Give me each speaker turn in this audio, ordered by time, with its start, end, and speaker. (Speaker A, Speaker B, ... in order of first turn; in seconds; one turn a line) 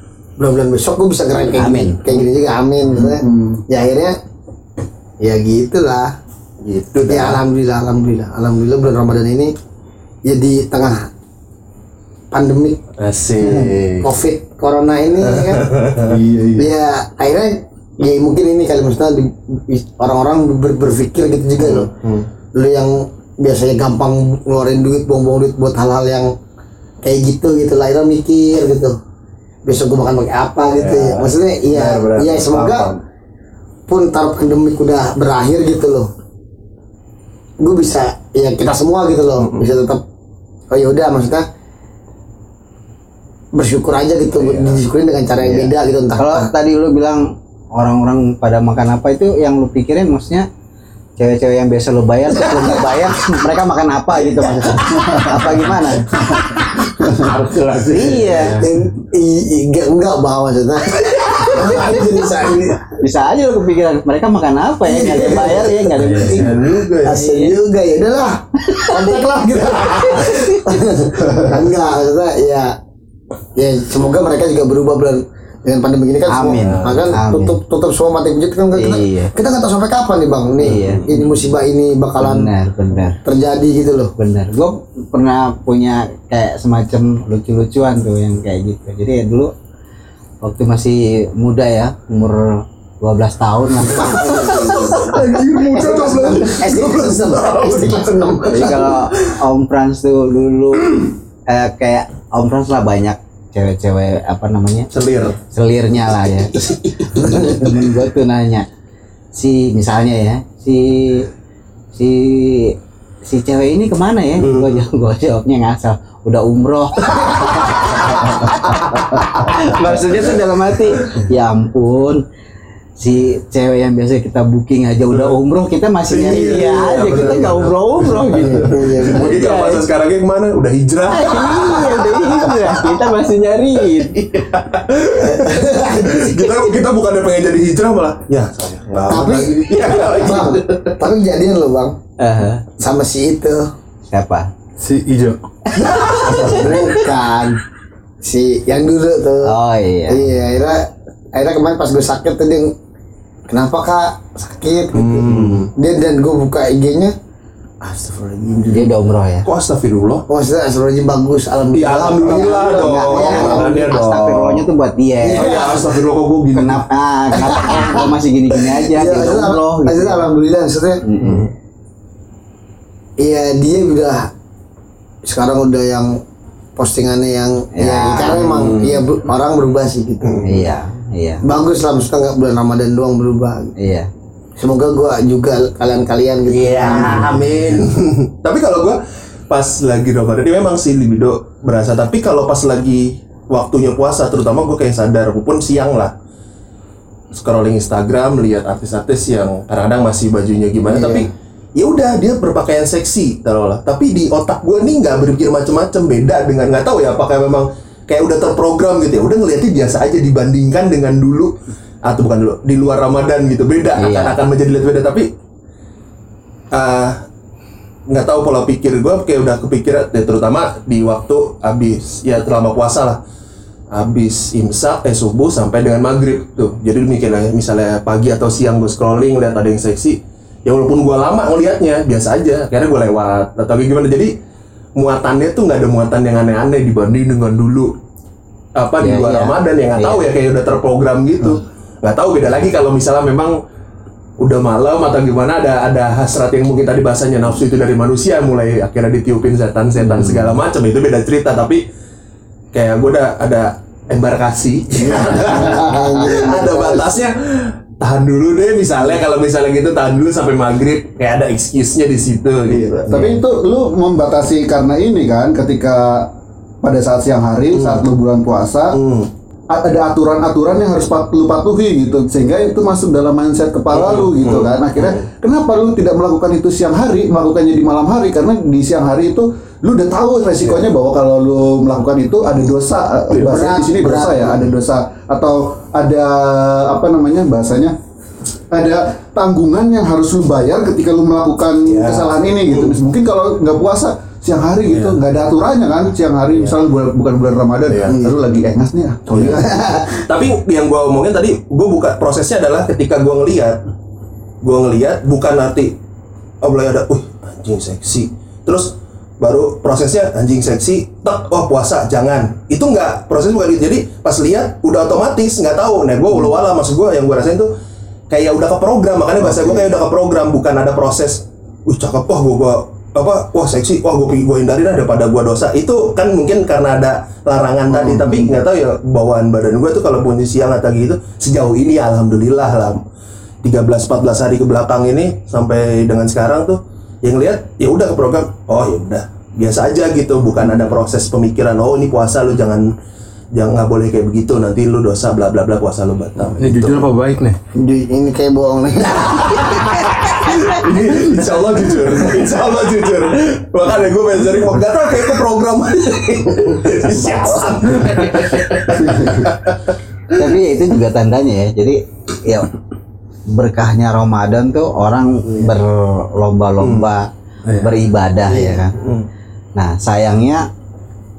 Speaker A: 0.4-4.2
Speaker B: 1.5-2.2
Speaker C: 2.9-3.6
Speaker A: 5.2-6.1
Speaker D: 6.6-7.4
Speaker A: 7.1-9.5
Speaker A: 10.3-11.1
Speaker A: 12.3-12.8
Speaker D: 13.0-14.1
Speaker C: 13.4-13.7
Speaker A: 14.0-15.7
Speaker D: 15.2-16.2
Speaker C: 16.0-16.6
Speaker A: 16.6-21.9
Speaker D: 21.6-22.3
Speaker A: 22.6-26.3
Speaker A: 27.0-29.0
Speaker A: 29.7-32.9
Speaker D: 30.8-33.0
Speaker A: 33.9-36.1
Speaker A: 37.6-40.0
Speaker D: 39.4-39.7
Speaker A: 40.7-41.5
Speaker A: 43.5-46.5
Speaker D: 44.4-44.8
Speaker B: 45.4-50.5
Speaker B: 51.2-56.7
Speaker A: 52.4-53.1
Speaker C: 54.9-55.5
Speaker C: 57.0-57.3
Speaker E: 57.1-58.7
Speaker B: 57.8-58.6
Speaker A: 58.6-63.0
Speaker B: 61.6-62.2
Speaker B: 63.0-67.6
Speaker A: 64.8-66.3
Speaker E: 65.9-66.6
Speaker D: 66.2-67.2
Speaker A: 67.0-72.8
Speaker B: 68.8-69.1
Speaker C: 71.2-71.6
Speaker A: 73.6-82.5
Speaker B: 76.3-77.6
Speaker D: 76.5-77.1
Speaker B: 78.7-79.3
Speaker B: 80.6-81.1
Speaker D: 80.7-81.2
Speaker B: 82.2-83.2
Speaker A: 83.2-84.1
Speaker B: 84.2-89.5
Speaker B: 90.4-95.2
Speaker A: 93.9-99.0
Speaker D: 94.2-98.4
Speaker B: 98.5-108.7
Speaker D: 104.9-105.3
Speaker A: 107.2-107.7
Speaker B: 109.3-111.3
Speaker B: 111.9-122.2
Speaker D: 114.4-114.8
Speaker D: 120.9-121.2
Speaker B: 123.0-129.8
Speaker D: 126.1-132.7
Speaker A: 128.5-129.3
Speaker B: 131.1-134.4
Speaker D: 134.0-141.0
Speaker A: 135.3-136.3
Speaker B: 138.9-139.3
Speaker A: 139.1-142.0
Speaker B: 142.2-142.7
Speaker A: 142.8-143.7
Speaker B: 144.1-144.5
Speaker E: 144.8-145.4
Speaker A: 145.7-147.6
Speaker B: 145.9-147.0
Speaker A: 148.2-149.5
Speaker B: 149.4-150.2
Speaker A: 150.1-152.7
Speaker A: 153.5-157.2
Speaker D: 154.9-155.7
Speaker A: 157.9-158.9
Speaker B: 158.7-159.5
Speaker D: 159.4-160.2
Speaker A: 160.3-163.9
Speaker D: 161.7-164.7
Speaker B: 162.3-165.7
Speaker A: 165.2-166.0
Speaker D: 165.4-166.8
Speaker B: 166.5-170.3
Speaker A: 167.3-168.1
Speaker A: 168.7-171.0
Speaker B: 171.0-171.5
Speaker D: 171.2-171.5
Speaker A: 173.2-174.3
Speaker A: 175.2-176.1
Speaker A: 176.8-180.6
Speaker B: 177.8-178.8
Speaker D: 178.6-179.0
Speaker D: 180.2-180.6
Speaker B: 180.4-181.4
Speaker A: 181.4-183.7
Speaker B: 183.8-184.1
Speaker A: 184.6-187.4
Speaker D: 186.5-196.1
Speaker D: 197.3-211.5
Speaker C: 200.9-201.3
Speaker D: 212.1-215.3
Speaker B: 213.9-214.4
Speaker D: 216.7-217.2
Speaker D: 218.1-223.2
Speaker D: 223.9-234.3
Speaker D: 235.0-237.9
Speaker D: 238.8-243.6
Speaker B: 239.0-240.3
Speaker D: 244.4-251.8
Speaker B: 250.0-250.6
Speaker D: 252.7-263.4
Speaker A: 255.0-257.2
Speaker C: 262.7-269.0
Speaker D: 267.8-268.0
Speaker D: 268.9-269.3
Speaker C: 269.7-288.0
Speaker D: 273.9-275.2
Speaker D: 283.3-283.6
Speaker A: 283.4-284.6
Speaker C: 288.7-299.9
Speaker D: 291.9-293.0
Speaker D: 294.9-295.2
Speaker D: 297.9-298.1
Speaker D: 299.3-299.6
Speaker A: 299.6-300.2
Speaker D: 300.2-303.8
Speaker D: 304.6-306.0
Speaker D: 306.6-317.7
Speaker D: 318.3-333.0
Speaker C: 319.4-319.9
Speaker C: 327.9-328.5
Speaker D: 333.6-342.9
Speaker D: 343.6-347.1
Speaker E: 346.6-347.6
Speaker A: 347.8-350.3
Speaker D: 349.1-359.8
Speaker A: 357.2-357.6
Speaker C: 358.9-359.6
Speaker B: 360.4-362.7
Speaker B: 363.5-367.3
Speaker D: 366.8-367.1
Speaker E: 367.7-368.0
Speaker B: 367.8-368.9
Speaker A: 368.5-368.8
Speaker D: 368.9-369.3
Speaker B: 369.8-370.7